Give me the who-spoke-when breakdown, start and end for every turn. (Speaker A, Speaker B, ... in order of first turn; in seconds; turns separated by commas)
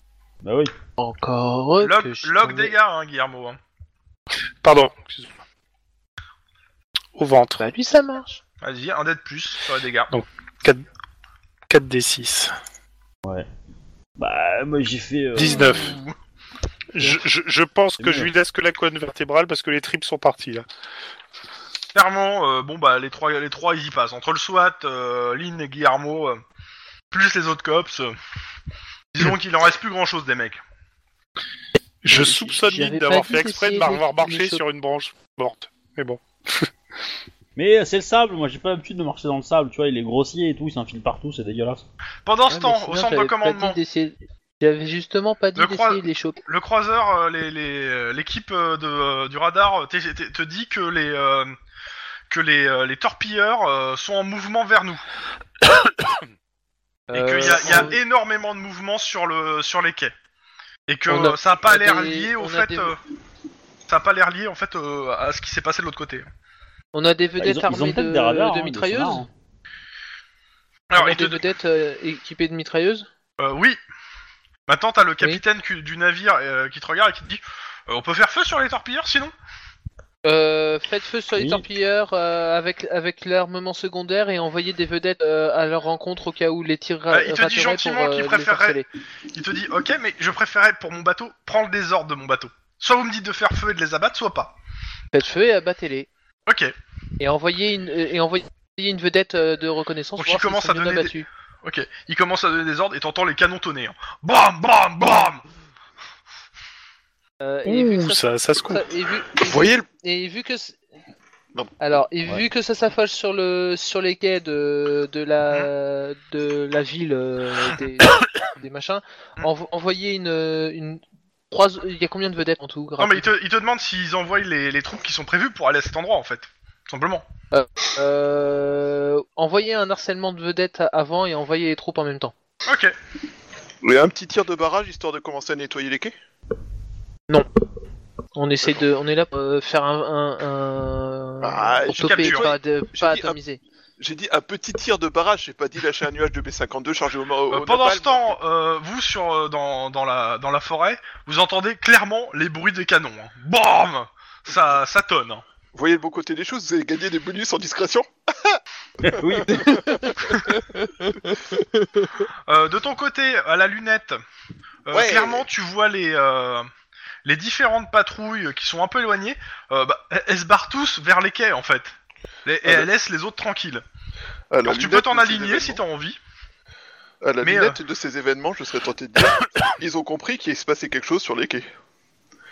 Speaker A: 0.4-0.7, Speaker B: 1.0-2.7, Speaker C: 1.8-3.6, Speaker D: 4.6-5.3, Speaker D: 7.1-7.6, Speaker B: 7.6-8.4, Speaker C: 8.6-10.1, Speaker D: 10.1-10.8, Speaker D: 11.7-12.5, Speaker A: 14.2-15.9, Speaker D: 15.3-16.0, Speaker D: 16.9-20.6, Speaker A: 18.0-18.3, Speaker C: 21.9-26.4, Speaker C: 27.1-28.1, Speaker C: 29.1-30.6, Speaker D: 32.0-36.7, Speaker B: 32.1-34.6, Speaker A: 37.5-41.8, Speaker C: 42.2-43.8, Speaker B: 42.5-46.4, Speaker C: 45.5-51.5, Speaker C: 52.3-55.0, Speaker D: 55.8-56.2, Speaker B: 57.1-58.0, Speaker C: 57.1-60.1, Speaker C: 60.9-63.0, Speaker B: 61.1-62.9, Speaker C: 63.9-66.3, Speaker B: 66.9-69.2, Speaker A: 67.4-69.3, Speaker C: 70.9-71.4, Speaker B: 70.9-73.1, Speaker C: 73.4-73.8, Speaker C: 74.7-79.3, Speaker B: 80.2-88.8, Speaker A: 81.3-81.6, Speaker C: 87.1-88.8, Speaker C: 89.3-94.5, Speaker B: 95.1-96.1, Speaker C: 96.5-96.7, Speaker B: 97.2-101.3, Speaker C: 100.2-105.4, Speaker B: 107.4-110.8, Speaker D: 107.7-108.8, Speaker E: 109.5-109.8, Speaker B: 111.8-123.3, Speaker C: 123.0-127.2, Speaker B: 127.5-132.3, Speaker C: 132.7-132.9, Speaker E: 133.8-136.1, Speaker B: 138.3-143.6, Speaker E: 141.4-143.4, Speaker C: 141.9-142.6, Speaker E: 144.0-148.3, Speaker C: 147.5-155.4, Speaker E: 155.7-158.6, Speaker A: 159.0-159.8, Speaker E: 159.1-160.0, Speaker B: 159.5-162.2, Speaker C: 162.5-164.2, Speaker C: 164.8-166.7, Speaker E: 164.9-165.4, Speaker C: 167.2-173.8, Speaker E: 174.5-175.8, Speaker C: 174.6-176.2, Speaker E: 177.2-181.7, Speaker C: 177.4-177.8